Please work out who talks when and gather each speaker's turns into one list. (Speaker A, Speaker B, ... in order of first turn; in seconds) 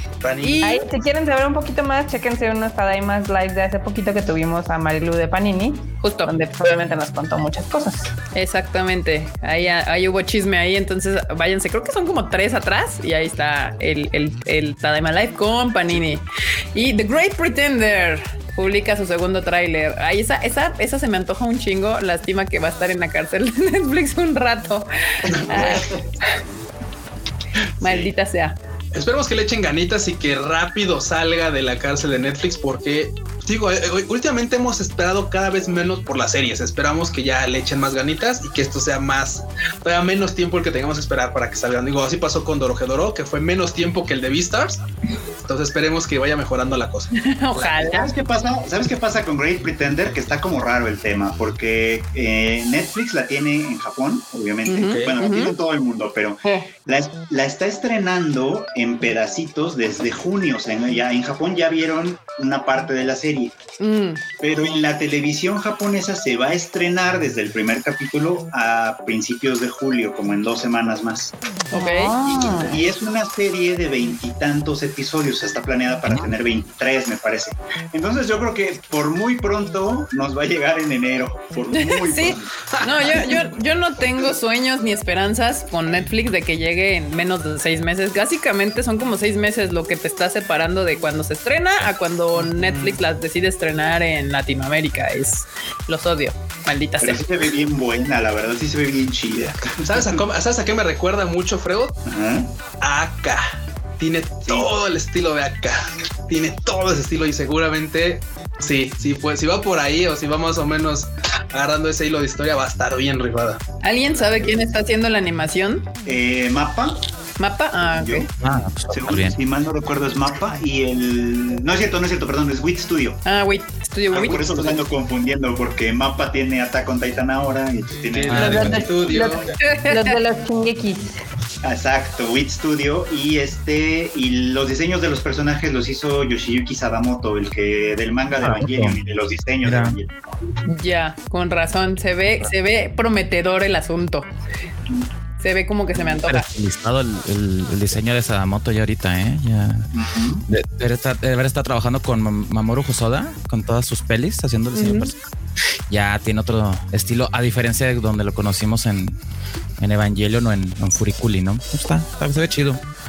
Speaker A: 0.2-0.7, 25.3-25.9, 28.9-44.9, 45.4-47.7, 54.8-55.1, 82.7-83.3, 92.5-93.0, 99.8-102.0, 102.8-103.4, 104.0-113.6, 128.1-129.4
Speaker B: 0.4-0.8, 6.0-6.3, 8.3-16.2, 16.8-26.3, 27.8-28.6, 47.1-48.1, 54.7-55.5, 63.8-64.2, 71.7-72.1, 81.7-97.2, 113.8-115.9, 117.4-118.3, 123.2-124.8, 129.6-130.2, 140.7-144.3, 145.4-146.5, 154.7-155.1
Speaker C: 0.6-8.1, 71.7-72.8, 128.3-131.2
Speaker D: 25.5-26.0, 27.8-28.1, 47.8-63.5, 64.4-71.3, 72.2-82.5, 97.0-100.2, 102.0-102.5, 104.5-104.7, 116.0-117.0, 118.0-118.3, 118.9-123.2, 124.1-129.4, 131.6-140.1, 149.9-150.4
Speaker E: 118.4-119.4, 128.3-128.9, 138.4-139.0, 139.6-140.0, 146.1-149.9, 150.5-155.3, 155.9-159.2, 159.8-162.8